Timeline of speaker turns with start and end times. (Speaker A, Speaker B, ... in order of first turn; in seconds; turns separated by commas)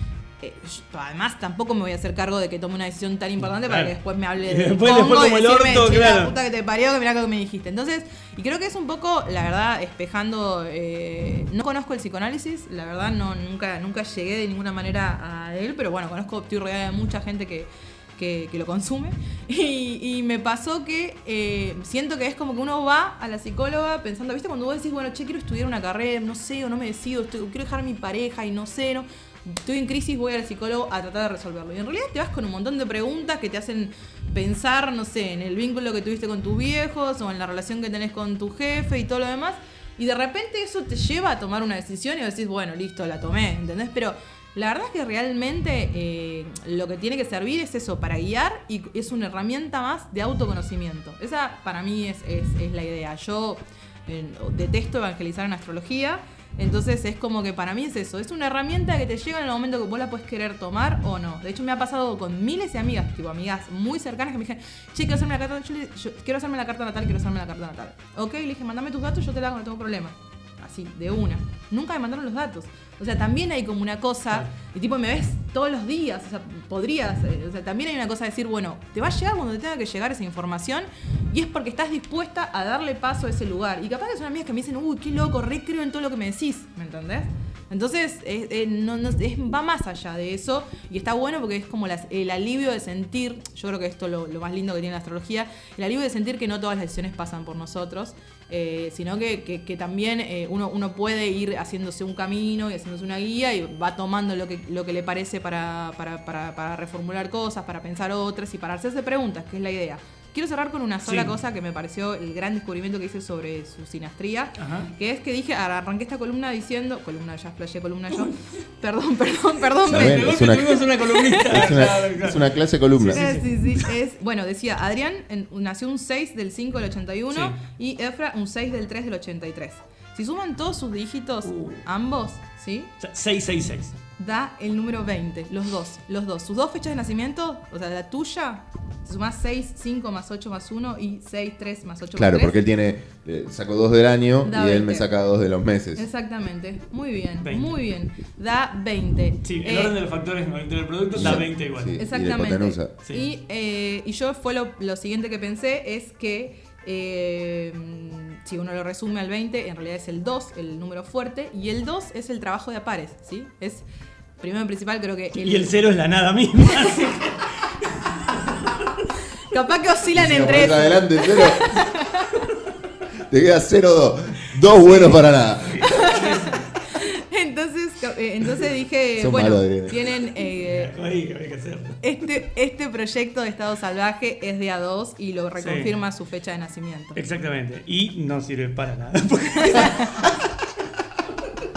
Speaker A: 0.4-121.5, Speaker B: 3.6-6.3, Speaker B: 111.1-111.3, Speaker B: 114.6-114.9, Speaker B: 119.8-123.9, Speaker C: 119.9-120.9, Speaker C: 121.5-123.3, Speaker A: 123.1-132.9, Speaker B: 127.3-127.6, Speaker B: 131.4-131.8, Speaker B: 133.0-134.0, Speaker A: 134.2-142.6, Speaker C: 142.1-146.1, Speaker A: 144.4-145.1, Speaker A: 146.0-150.0, Speaker B: 147.4-147.8, Speaker B: 149.4-152.0, Speaker C: 151.1-152.9, Speaker A: 152.0-163.8, Speaker A: 164.4-165.8, Speaker B: 165.4-168.6, Speaker A: 169.5-172.5, Speaker C: 170.1-171.6, Speaker C: 173.3-176.0, Speaker B: 175.6-176.7, Speaker A: 175.8-180.9, Speaker C: 179.2-180.0, Speaker B: 180.6-182.0, Speaker A: 182.0-187.2, Speaker B: 185.6-185.9, Speaker B: 187.1-190.4, Speaker A: 189.7-190.1